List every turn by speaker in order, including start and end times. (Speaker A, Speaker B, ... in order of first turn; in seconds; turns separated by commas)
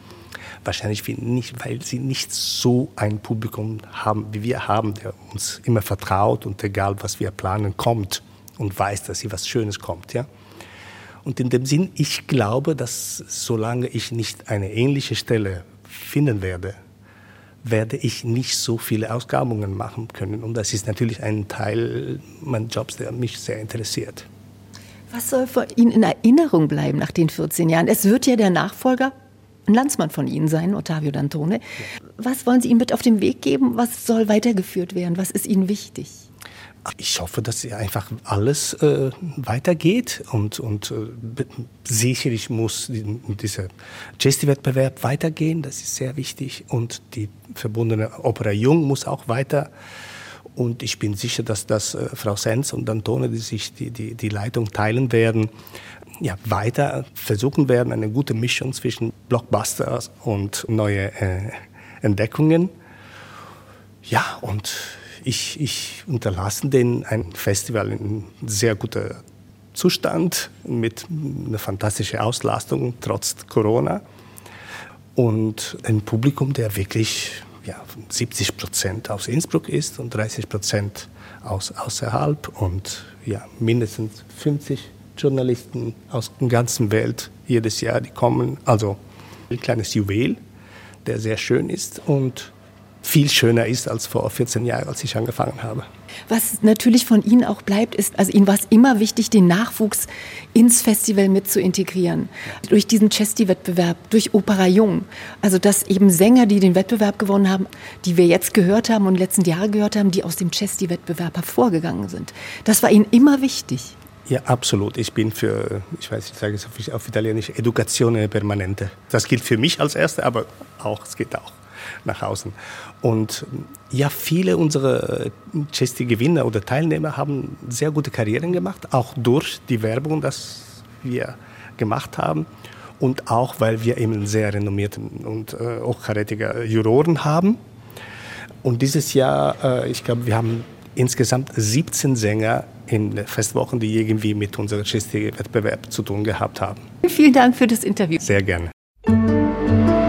Speaker A: 0.6-10.3, Speaker A: 11.2-16.8, Speaker A: 17.6-24.3, Speaker B: 25.1-29.1, Speaker B: 29.7-31.6, Speaker B: 32.2-36.2, Speaker A: 36.9-49.7, Speaker A: 50.5-55.5, Speaker A: 56.2-62.7, Speaker A: 64.0-69.2, Speaker A: 69.7-74.0, Speaker A: 75.2-89.0, Speaker A: 89.5-90.4, Speaker A: 91.0-95.8, Speaker B: 96.3-113.9, Speaker A: 114.2-132.5, Speaker A: 133.0-137.6, Speaker A: 138.6-146.8, Speaker B: 147.0-148.2, Speaker A: 148.2-148.7